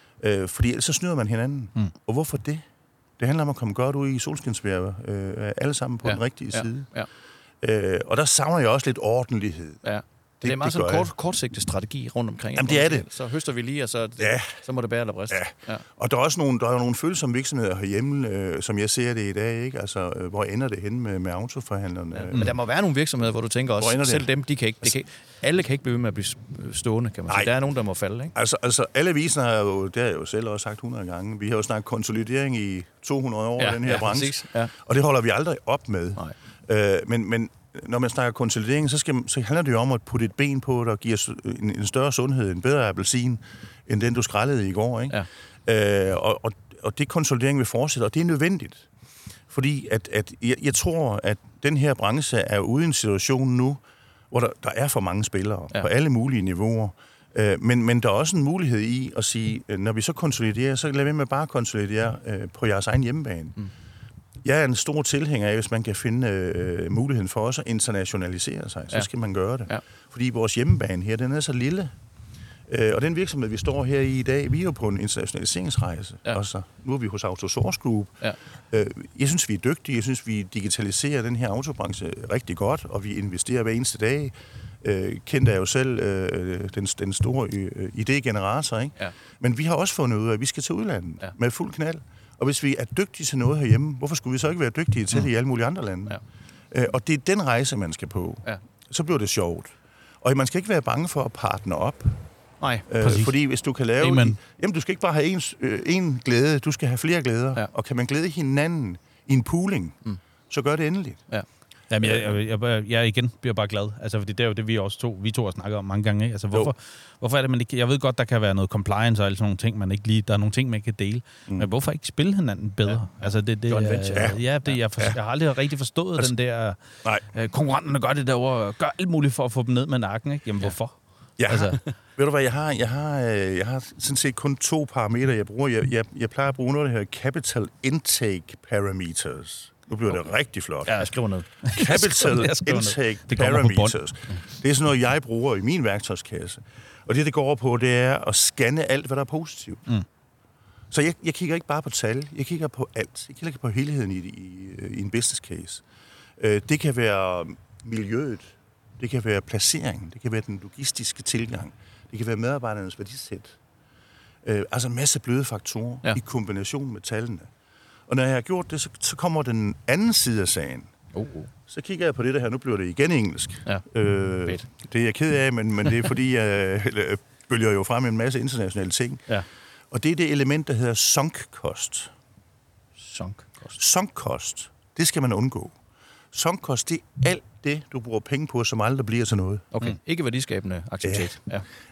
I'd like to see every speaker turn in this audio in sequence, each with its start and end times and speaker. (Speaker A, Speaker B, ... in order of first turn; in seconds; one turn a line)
Speaker A: 0.2-2.6
Speaker A: 3.2-6.9
Speaker B: 6.0-7.1
Speaker A: 7.6-9.8
Speaker B: 9.8-15.8
Speaker A: 10.4-11.1
Speaker A: 12.6-13.1
Speaker A: 14.2-14.6
Speaker A: 15.3-22.6
Speaker B: 22.1-28.3
Speaker A: 23.8-24.3
Speaker A: 28.4-48.9
Speaker B: 33.6-34.7
Speaker A: 49.5-63.6
Speaker A: 64.4-72.0
Speaker A: 72.7-96.2
Speaker A: 96.7-102.3
Speaker B: 102.6-102.9
Speaker A: 102.9-110.0
Speaker C: 103.0-103.3
Speaker C: 104.0-104.4
Speaker A: 110.5-111.2
Speaker C: 111.9-126.8
Speaker A: 112.0-112.4
Speaker B: 122.9-124.8
Speaker C: 127.3-131.0
Speaker A: 131.4-141.1
Speaker B: 131.5-131.9
Speaker B: 140.9-141.5
Speaker C: 141.6-144.0
Speaker A: 141.7-149.9
Speaker A: 150.9-155.8
Speaker A: 156.4-163.6
Speaker A: 164.4-167.5
Speaker A: 168.1-170.9
Speaker B: 171.1-171.5
Speaker A: 171.7-179.3
Speaker A: 179.9-182.1
Speaker B: 183.0-183.8
Speaker A: 183.8-185.8
Speaker A: 186.3-189.7
Speaker B: 189.7-191.7
Speaker A: 191.1-191.3